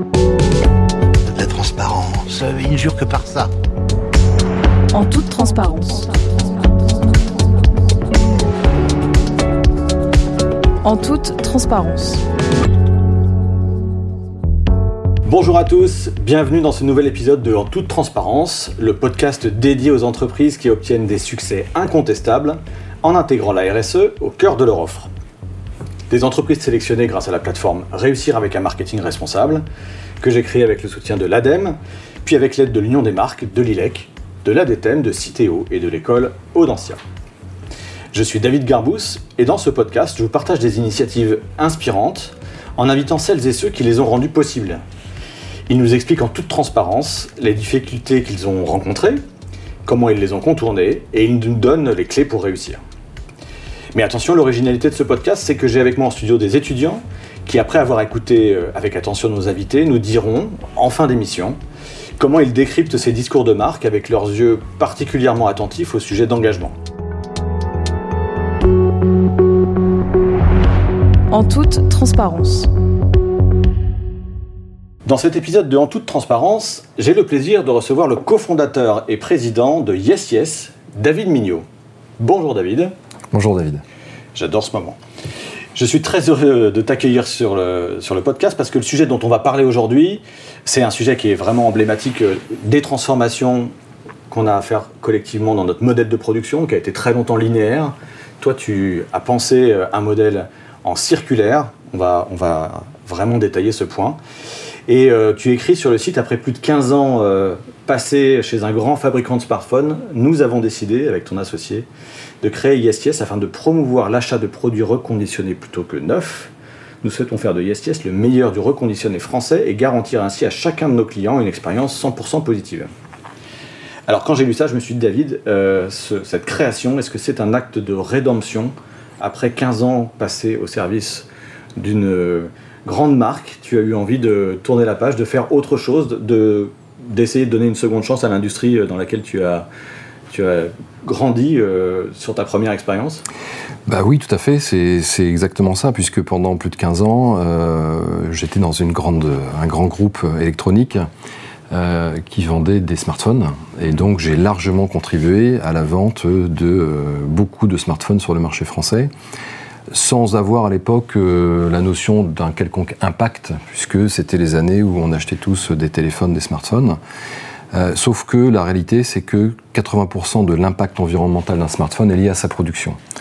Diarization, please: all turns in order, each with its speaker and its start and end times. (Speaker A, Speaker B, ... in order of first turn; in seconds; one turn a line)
Speaker A: 1.2-3.5
Speaker B: 4.9-6.1
Speaker B: 10.8-12.2
Speaker C: 15.3-25.1
Speaker C: 26.1-29.6
Speaker C: 30.2-37.0
Speaker C: 38.1-44.8
Speaker C: 45.7-49.2
Speaker C: 49.9-52.8
Speaker C: 53.9-61.6
Speaker C: 62.2-66.8
Speaker B: 71.3-72.7
Speaker C: 75.1-81.6
Speaker C: 82.2-82.9
Speaker D: 83.3-83.8
Speaker C: 84.3-85.0
Speaker C: 85.8-93.7
Speaker C: 94.3-104.2
Speaker C: 104.9-111.9
Speaker C: 112.4-122.9
Speaker C: 124.1-139.7
Speaker C: 140.3-143.2
Speaker D: 143.9-151.1
Speaker D: 151.7-159.1
Speaker D: 159.9-167.0
Speaker D: 167.7-173.0